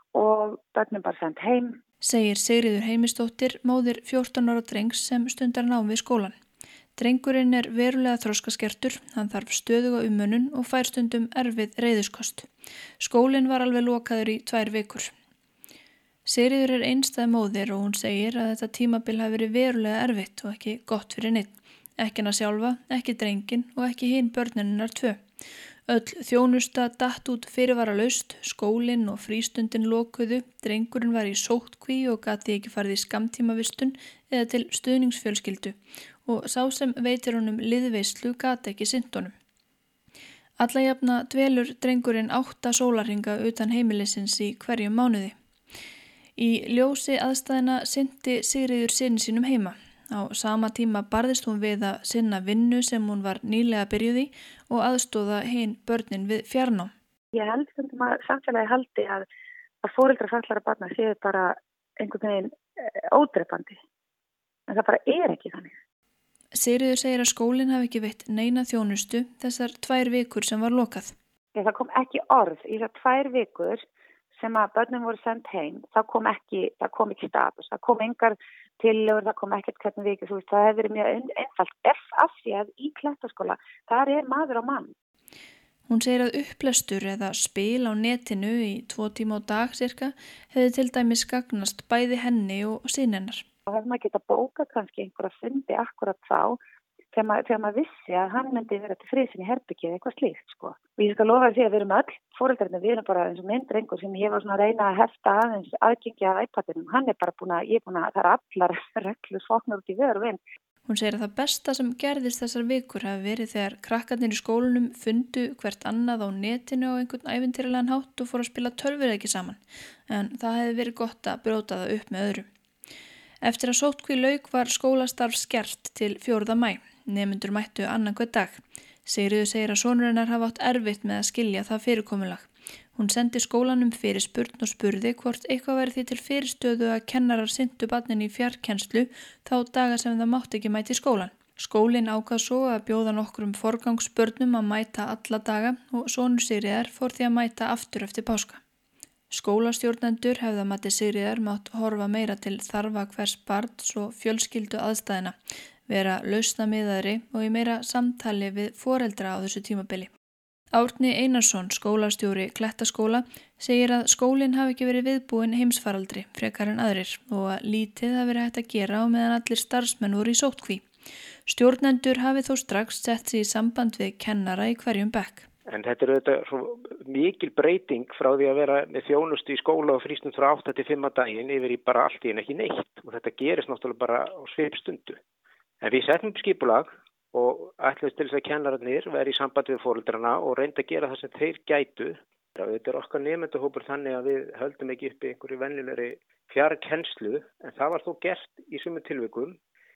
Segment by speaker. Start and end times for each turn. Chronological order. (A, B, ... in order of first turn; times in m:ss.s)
0:00.1-0:01.8 A
0:02.0-0:06.3 B
0:07.0-0:12.5 B
0:13.0-0:15.1 B
0:16.2-0:25.2 B
0:25.9-0:39.3 B
0:40.6-0:45.3 B
0:46.4-0:56.9 B
0:57.3-0:59.2 A
0:59.8-1:02.6 A
1:03.1-1:03.8 A
1:04.7-1:05.8 A
1:06.5-1:11.1 B
1:11.5-1:13.8 A
1:14.4-1:24.9 A
1:25.9-1:33.4 B
1:33.7-1:36.6 A
1:37.1-1:50.4 A
1:50.9-2:02.5 B
2:03.4-2:28.6 B
2:29.3-2:35.4 B
2:35.9-2:40.1 B
2:40.7-2:50.8 B
2:51.5-2:55.5 B
2:55.7-3:05.2 C
3:05.8-3:19.6 C